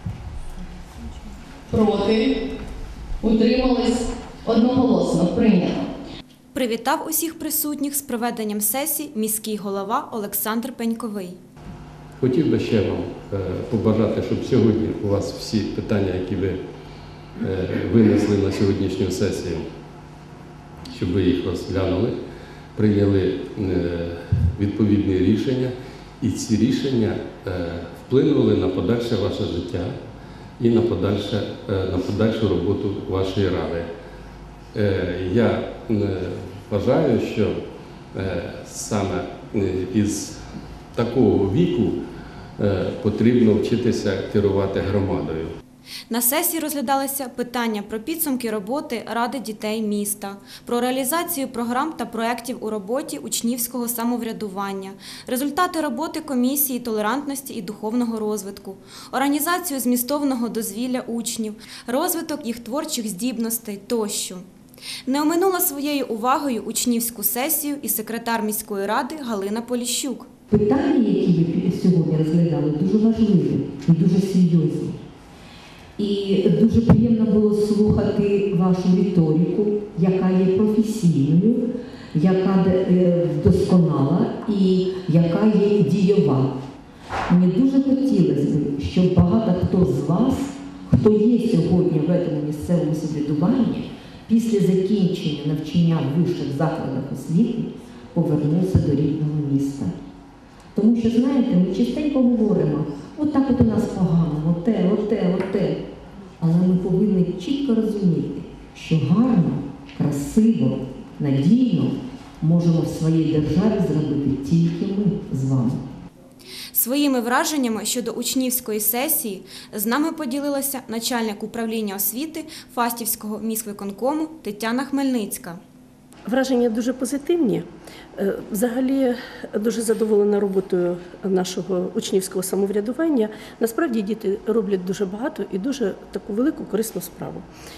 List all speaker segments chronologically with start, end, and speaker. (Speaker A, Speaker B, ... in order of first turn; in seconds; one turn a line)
Speaker A: 1.7-2.4
Speaker A: 3.2-5.9
Speaker B: 6.5-11.4
Speaker C: 12.2-16.6
Speaker C: 17.4-19.7
Speaker C: 20.9-22.2
Speaker C: 22.8-29.9
Speaker C: 30.6-33.9
Speaker C: 34.7-37.6
Speaker C: 38.1-40.4
Speaker C: 40.9-42.0
Speaker C: 42.6-45.5
Speaker B: 46.1-64.4
Speaker B: 65.1-70.3
Speaker D: 70.5-75.0
Speaker D: 76.0-86.5
Speaker D: 87.3-99.9
Speaker D: 100.8-105.8
Speaker D: 106.4-115.8
Speaker B: 116.7-125.6
Speaker E: 126.3-127.6
Speaker E: 128.2-137.4